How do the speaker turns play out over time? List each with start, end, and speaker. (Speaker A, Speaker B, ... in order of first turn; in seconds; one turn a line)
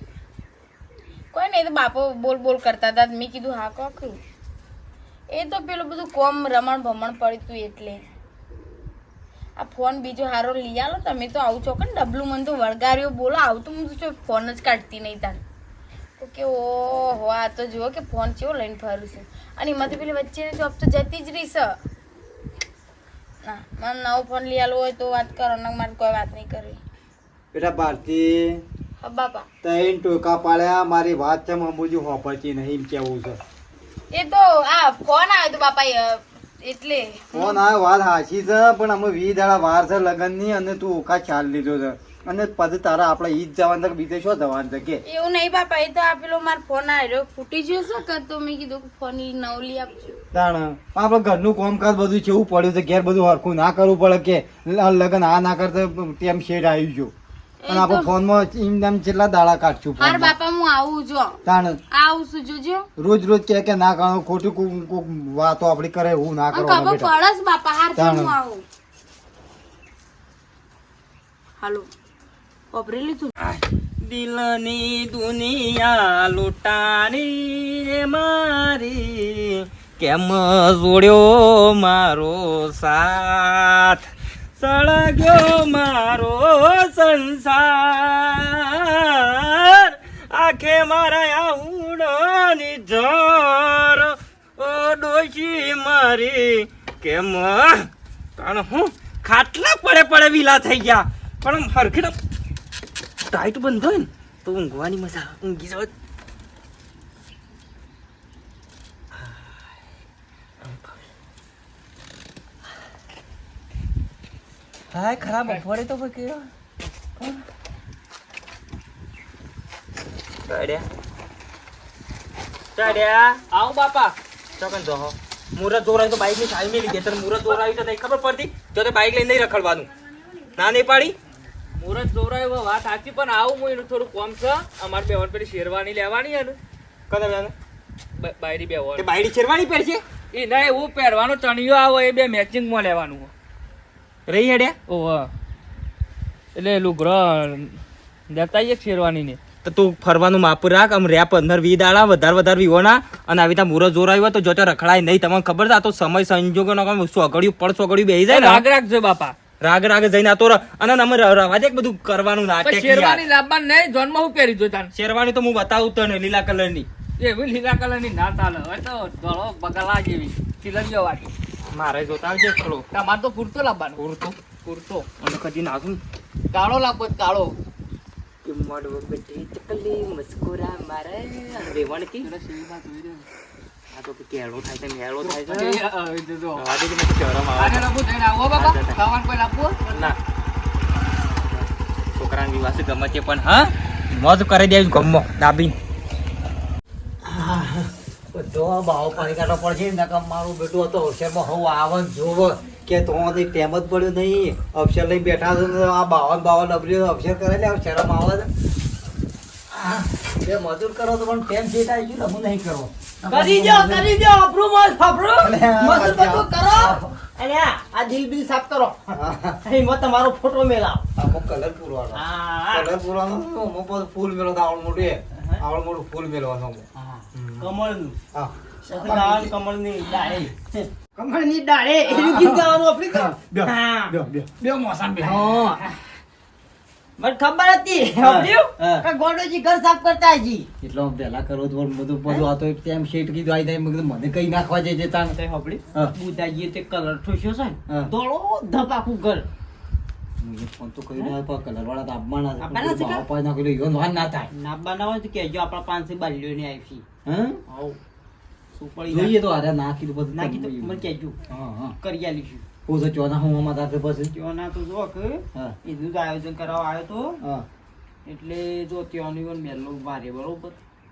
Speaker A: 1.3-4.2
Speaker A: 5.3-8.1
Speaker A: 9.6-15.4
Speaker A: 16.2-21.8
Speaker A: 23.4-26.8
Speaker B: 27.5-28.6
Speaker A: 29.0-29.5
Speaker B: 29.6-33.4
Speaker A: 34.1-37.6
Speaker B: 37.3-45.0
Speaker A: 45.0-50.1
Speaker B: 50.3-57.1
Speaker A: 57.6-58.1
Speaker B: 57.7-60.3
Speaker A: 60.0-61.4
Speaker B: 61.5-61.8
Speaker A: 61.9-62.9
Speaker B: 63.0-67.1
Speaker A: 66.5-68.6
Speaker B: 68.0-68.3
Speaker A: 71.6-71.9
Speaker A: 72.7-73.3
Speaker C: 73.4-84.0
Speaker C: 84.6-102.2
Speaker C: 103.3-105.9
Speaker C: 110.6-110.9
Speaker C: 114.9-116.5
Speaker D: 115.4-115.7
Speaker C: 120.5-120.8
Speaker C: 122.8-123.4
Speaker D: 123.5-124.2
Speaker C: 124.6-129.9
Speaker C: 130.6-131.1
Speaker D: 131.7-136.6
Speaker C: 137.1-137.5
Speaker D: 138.2-139.1
Speaker C: 139.0-140.0
Speaker D: 140.3-143.3
Speaker C: 144.3-144.8
Speaker D: 144.9-145.3
Speaker D: 146.6-147.8
Speaker D: 148.3-149.4
Speaker C: 149.6-158.6
Speaker D: 158.3-159.4
Speaker C: 159.6-163.2
Speaker D: 162.6-164.9
Speaker C: 164.9-166.9
Speaker D: 167.2-171.3
Speaker C: 171.7-172.9
Speaker D: 172.9-175.1
Speaker C: 174.0-174.4
Speaker C: 175.2-176.0
Speaker D: 176.6-177.6
Speaker C: 178.4-182.3
Speaker D: 182.3-183.3
Speaker C: 183.9-185.8
Speaker D: 185.4-186.7
Speaker C: 186.6-187.9
Speaker D: 187.6-189.9
Speaker C: 188.5-189.0
Speaker C: 189.9-190.2
Speaker C: 191.4-195.8
Speaker B: 197.3-197.7
Speaker B: 198.3-208.5
Speaker B: 209.7-214.1
Speaker E: 213.3-221.1
Speaker B: 215.4-217.2
Speaker B: 219.1-219.6
Speaker B: 221.2-227.7
Speaker E: 222.1-222.9
Speaker E: 226.9-228.2
Speaker B: 228.3-229.5
Speaker E: 228.8-235.9
Speaker B: 232.2-234.6
Speaker B: 235.2-235.8
Speaker E: 237.2-240.7
Speaker B: 238.2-239.1
Speaker B: 240.8-245.4
Speaker E: 245.3-249.5
Speaker B: 250.4-254.5
Speaker E: 252.6-253.2
Speaker E: 254.5-257.1
Speaker B: 257.3-257.6
Speaker E: 257.7-258.0
Speaker E: 258.7-259.4
Speaker B: 259.1-261.9
Speaker E: 260.3-261.4
Speaker E: 262.0-262.7
Speaker B: 262.9-264.3
Speaker E: 264.3-267.4
Speaker B: 267.4-267.7
Speaker E: 268.2-270.8